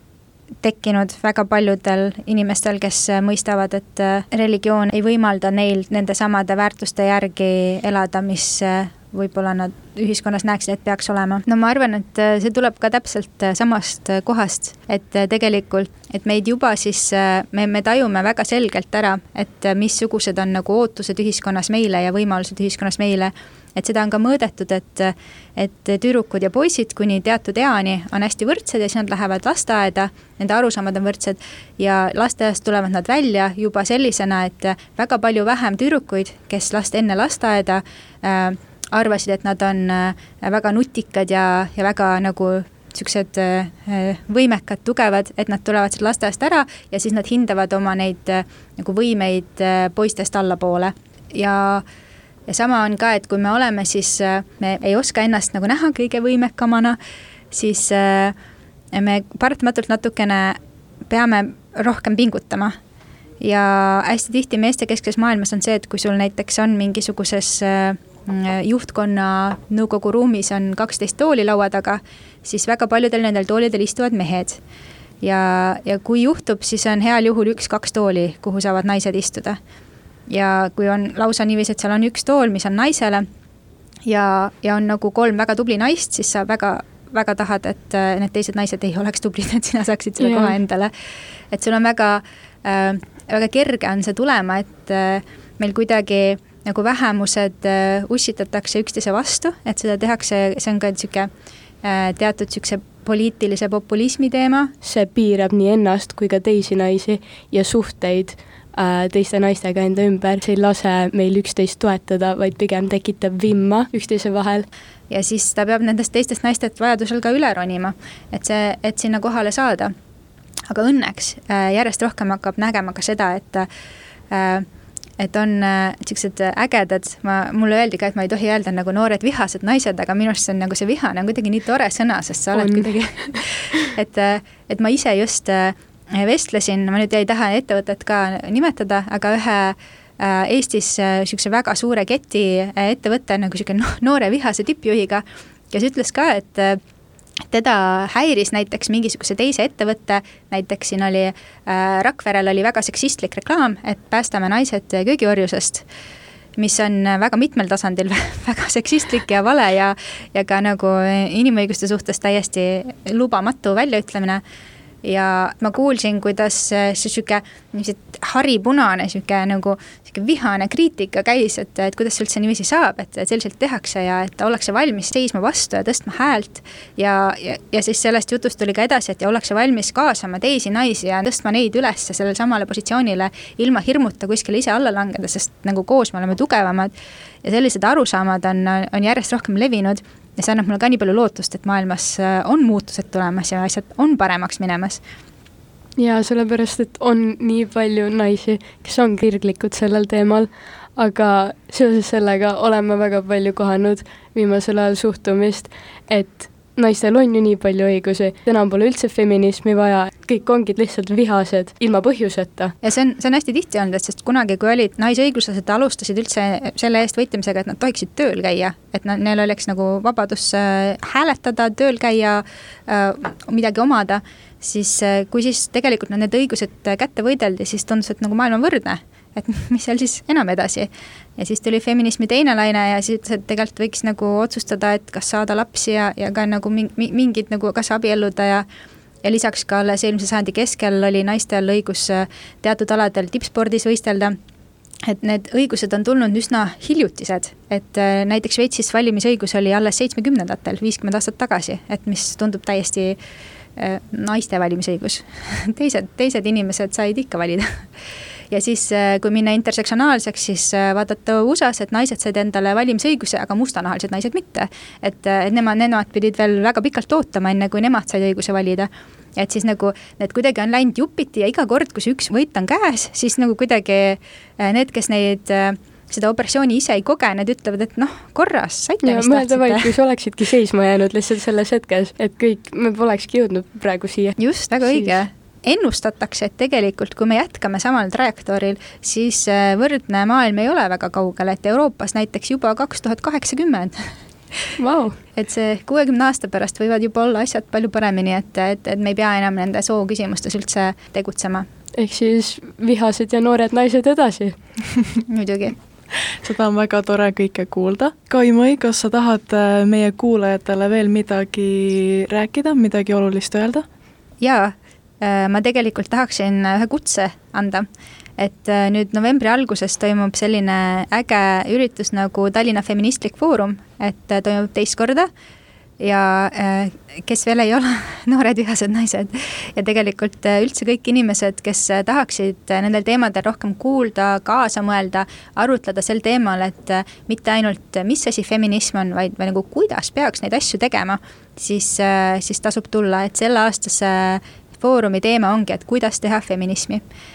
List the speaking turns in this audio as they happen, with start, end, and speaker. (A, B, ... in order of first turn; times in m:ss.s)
0:00.6-0:51.8 A
0:52.5-0:57.0 A
0:57.5-0:58.4 A
0:58.9-1:02.8 A
1:03.4-1:14.6 A
1:15.2-1:19.6 A
1:20.3-1:23.2 A
1:24.0-1:30.9 A
1:30.2-1:30.6 B
1:31.5-1:41.3 A
1:41.8-1:44.7 A
1:44.8-1:54.6 B
1:55.1-1:59.9 A
2:00.7-2:03.7 A
2:04.3-2:04.6 A
2:05.2-2:26.8 A
2:12.5-2:13.4 B
2:27.5-2:35.8 A
2:36.6-2:44.4 A
2:45.0-3:06.9 A
3:07.4-3:15.0 A
3:16.0-3:32.7 B
3:32.8-3:58.6 A
3:59.2-4:04.4 A
4:05.0-4:13.2 A
4:13.8-4:17.9 A
4:18.5-4:39.9 A
4:39.0-4:45.1 B
4:44.4-4:54.7 A
4:54.8-4:55.2 B
4:55.4-5:01.6 A
5:02.0-5:04.6 B
5:05.2-5:05.8 A
5:06.4-5:13.8 C
5:14.4-5:17.9 A
5:18.4-5:25.3 A
5:26.0-5:47.0 A